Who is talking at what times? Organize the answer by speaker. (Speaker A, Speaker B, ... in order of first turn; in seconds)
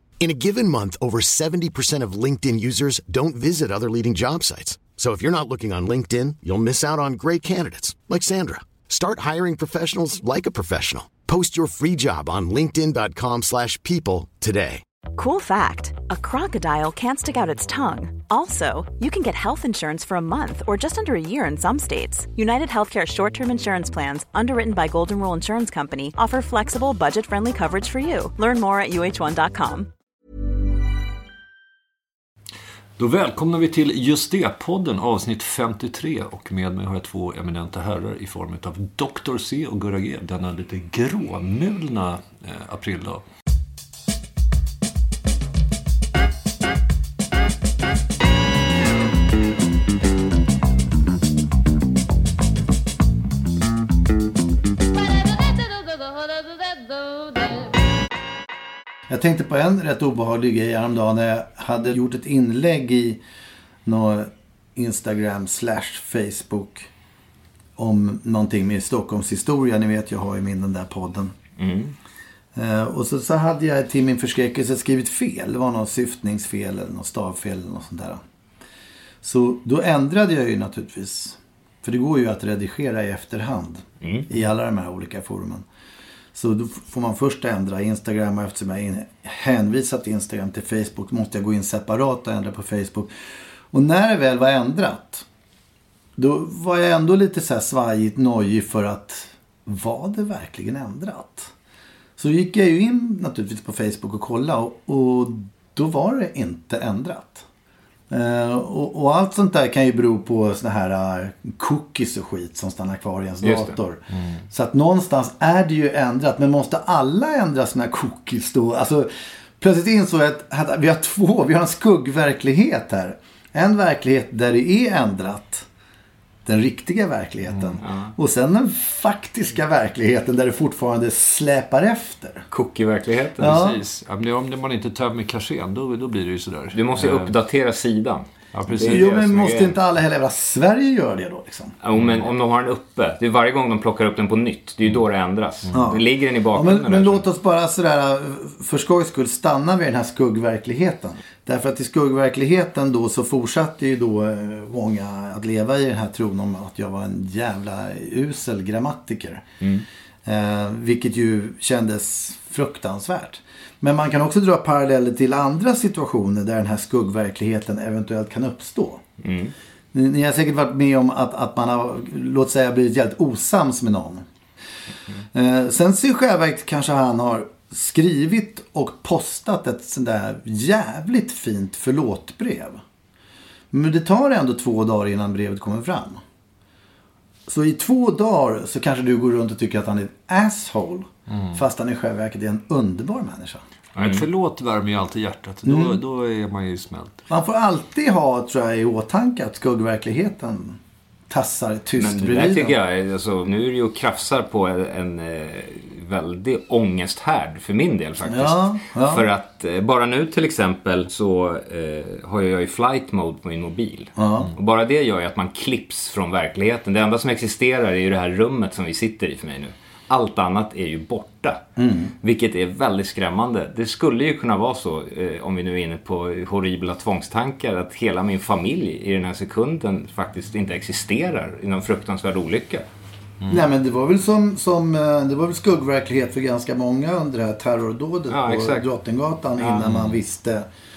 Speaker A: 0.2-14.8
Speaker B: 15.2-29.9
Speaker C: 33.0-43.2, 114.1-114.4, 133.4-137.3, 138.5-139.0, 191.3-191.6, 193.9-197.2
Speaker D: 59.1-63.2, 63.9-66.9, 67.8-71.3, 72.5-78.2, 79.2-85.6, 86.3-93.1, 93.7-95.2, 96.2-101.5, 102.2-107.4, 108.1-125.7, 126.5-132.4, 133.4-133.8, 138.8-141.7, 145.7-159.4, 160.2-169.0, 169.9-174.2, 175.3-182.8, 183.7-186.2, 187.5-193.6, 195.6-196.0, 197.3-200.8, 201.3-202.8, 208.2-209.3, 214.2-214.5, 221.8-222.1, 233.5-240.7
Speaker E: 71.6-71.9, 84.0-84.3, 113.4-113.7, 127.8-128.1, 132.5-133.5, 136.7-139.7, 141.8-147.2, 169.2-169.5, 194.0-194.3, 202.0-221.6, 222.2-232.8, 238.3-238.8, 239.6-239.9